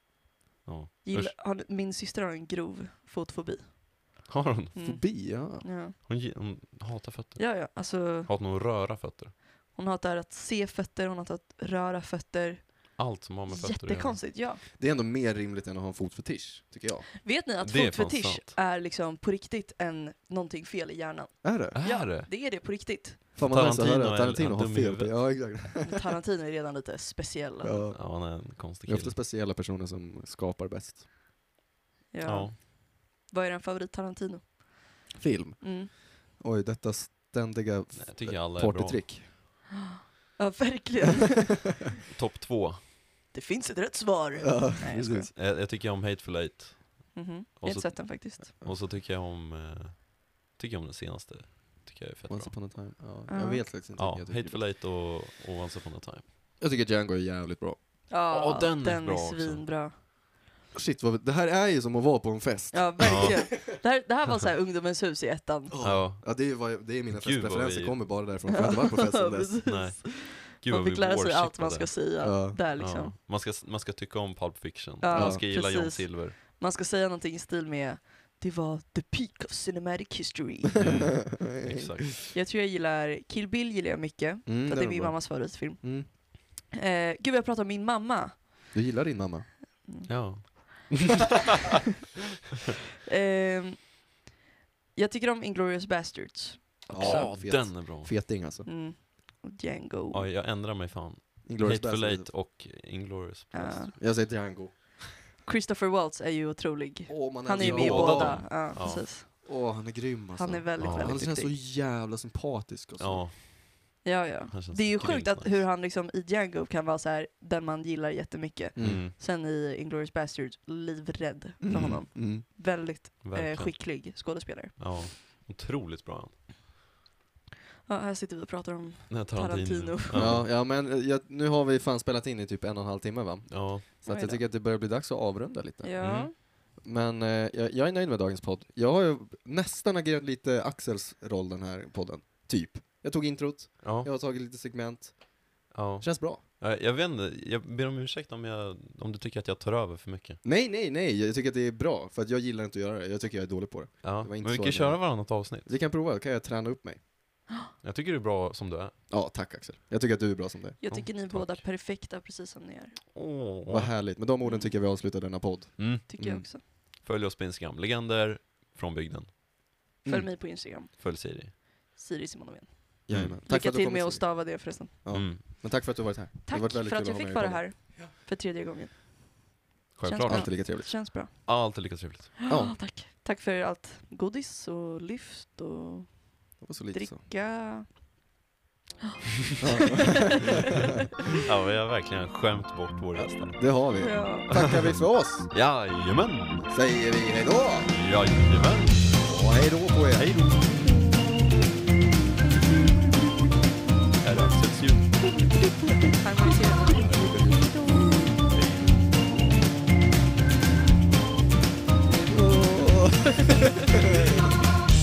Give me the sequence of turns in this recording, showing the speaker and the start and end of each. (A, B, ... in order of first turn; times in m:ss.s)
0:00.6-0:01.4 A
0:01.0-0:06.0 B
0:04.3-0:04.8 A
0:04.8-0:05.6 C
0:06.1-0:09.4 A
0:07.4-0:08.3 B
0:09.7-0:14.6 B
0:13.0-0:14.2 A
0:14.7-0:17.1 C
0:17.2-0:23.3 B
0:17.6-0:18.5 A
0:21.4-0:21.8 C
0:21.8-0:22.3 A
0:23.4-0:25.9 C
0:23.4-0:25.5 A
0:25.8-0:27.9 B
0:27.6-0:31.0 C
0:28.0-0:29.2 A
0:32.1-0:34.6 B
0:32.2-0:32.6 A
0:35.2-0:39.3 C
0:35.6-0:35.9 B
0:38.0-0:39.1 A
0:40.4-0:41.7 B
0:42.1-0:42.8 A
0:43.3-0:45.3 B
0:44.4-0:45.3 C
0:45.3-0:52.6 A
0:47.1-0:48.5 B
0:52.3-0:54.6 C
0:53.3-0:53.7 B
0:54.0-0:56.2 A
0:56.6-0:57.8 C
0:58.1-0:59.9 B
0:58.3-0:59.7 A
1:00.7-1:03.5 C
1:02.7-1:05.8 B
1:03.0-1:03.4 A
1:05.7-1:09.6 C
1:05.8-1:06.4 A
1:07.1-1:08.0 A
1:08.5-1:13.1 B
1:09.6-1:12.2 A
1:12.2-1:12.6 C
1:12.8-1:16.4 A
1:15.0-1:21.0 B
1:15.1-1:15.4 C
1:20.8-1:22.1 A
1:20.8-1:22.1 C
1:22.3-1:28.6 B
1:24.5-1:26.1 C
1:28.7-1:29.5 C
1:29.8-1:30.7 B
1:30.1-1:31.2 A
1:33.1-1:33.9 B
1:35.0-1:37.3 B
1:36.9-1:38.7 C
1:37.0-1:38.2 A
1:38.6-1:40.3 B
1:40.1-1:44.0 A
1:41.4-1:42.3 C
1:43.5-1:44.0 B
1:44.0-1:45.1 C
1:45.4-1:49.6 B
1:47.1-1:53.3 C
1:47.6-1:49.1 A
1:50.4-1:51.5 B
1:50.8-1:51.2 A
1:53.0-1:53.9 A
1:54.0-2:05.0 B
1:54.5-1:55.6 A
1:58.8-1:59.0 C
1:58.8-1:59.1 A
2:01.6-2:02.4 C
2:01.7-2:02.0 A
2:03.2-2:04.0 A
2:04.8-2:06.4 A
2:07.9-2:10.4 B
2:09.1-2:10.5 A
2:10.1-2:26.4 C
2:13.5-2:13.9 A
2:14.1-2:14.4 B
2:15.8-2:16.4 B
2:16.0-2:16.3 A
2:23.8-2:24.1 A
2:25.7-2:30.4 A
2:30.4-2:37.0 C
2:34.0-2:35.7 A
2:37.8-2:39.0 A
2:39.1-2:40.8 C
2:40.8-2:43.0 B
2:40.9-2:41.6 A
2:43.1-2:44.0 A
2:43.7-2:46.5 C
2:44.4-2:44.7 B
2:45.8-2:46.1 A
2:46.1-2:46.6 B
2:47.0-2:49.3 A
2:50.0-2:50.3 C
2:50.0-2:55.0 B
2:51.0-2:51.6 A
2:53.1-2:58.1 C
2:53.1-2:53.4 A
2:55.1-2:55.4 A
2:56.5-2:59.0 B
3:00.0-3:00.9 A
3:00.0-3:01.9 B
3:00.3-3:00.9 C
3:01.4-3:02.4 A
3:02.4-3:07.9 B
3:02.5-3:02.8 C
3:06.6-3:07.2 C
3:09.6-3:10.6 C
3:11.4-3:13.9 A
3:13.2-3:15.5 C
3:13.9-3:14.5 B
3:14.5-3:15.0 A
3:15.5-3:16.7 A
3:16.7-3:17.9 C
3:17.9-3:19.2 A
3:19.2-3:20.3 C
3:20.1-3:21.0 A
3:24.2-3:25.2 A
3:26.0-3:28.2 B
3:26.9-3:28.3 C
3:28.5-3:29.3 A
3:32.3-3:34.6 C
3:32.4-3:33.7 B